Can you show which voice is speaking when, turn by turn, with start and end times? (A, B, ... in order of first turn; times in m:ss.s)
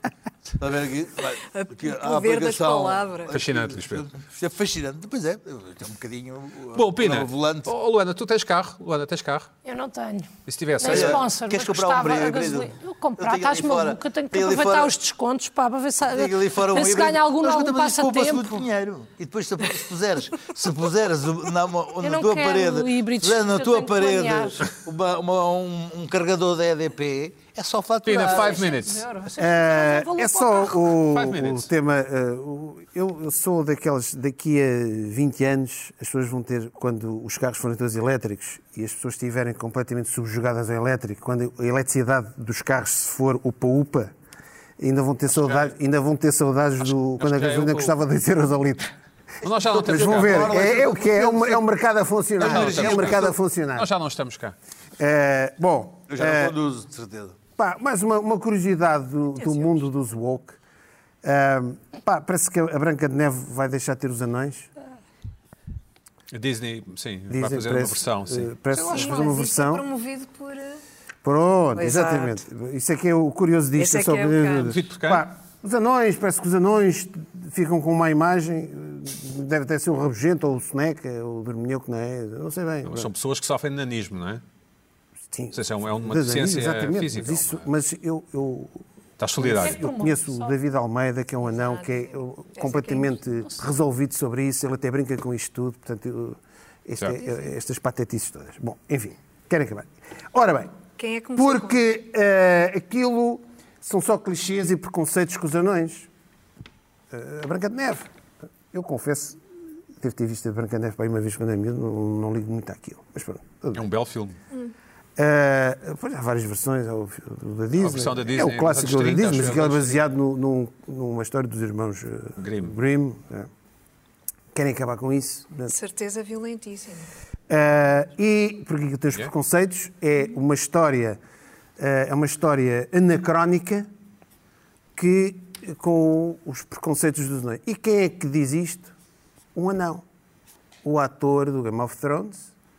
0:00.6-0:07.7 A
0:01.5-0:03.3 B
0:03.3-0:04.0 C
0:06.7-0:09.5 C
0:09.6-0:18.6 D
0:10.4-0:11.3 C
0:10.8-0:15.0 A
0:16.0-0:28.7 A
0:22.0-0:24.7 D
0:28.0-0:29.2 C
0:28.1-0:30.9 D
0:29.4-0:44.1 E
0:31.0-0:31.7 C
0:44.8-0:48.9 E
0:45.3-0:45.7 C
0:47.2-0:47.9 C
0:49.4-0:50.6 C
0:49.7-0:51.6 A
0:49.7-0:53.9 E
0:52.4-0:53.3 A
0:52.4-0:54.5 C
0:55.0-0:56.6 E
0:56.1-0:57.4 A
0:57.6-1:00.6 E
0:59.3-0:59.8 B
1:01.2-1:04.7 E
1:06.3-1:09.4 C
1:07.3-1:09.8 E
1:08.7-1:10.8 B
1:11.2-1:23.1 E
1:11.7-1:12.4 B
1:13.8-1:14.8 B
1:14.6-1:15.3 C
1:22.8-1:24.4 C
1:25.3-1:28.8 E
1:25.5-1:27.7 C
1:29.2-1:29.9 C
1:29.4-1:40.7 E
1:29.4-1:30.5 D
1:31.4-1:33.1 B
1:41.0-1:41.8 B
1:41.4-1:46.1 E
1:47.1-1:48.1 E
1:48.7-1:49.4 E
1:50.0-1:53.8 E
1:53.7-1:54.4 C
1:55.2-2:03.5 E
1:57.8-2:00.0 C
2:02.4-2:02.7 C
2:04.5-2:05.7 E
2:05.7-2:07.1 B
2:07.5-2:11.2 E
2:11.8-2:13.9 E
2:14.9-2:18.9 E
2:19.5-2:20.0 E
2:20.8-2:22.5 E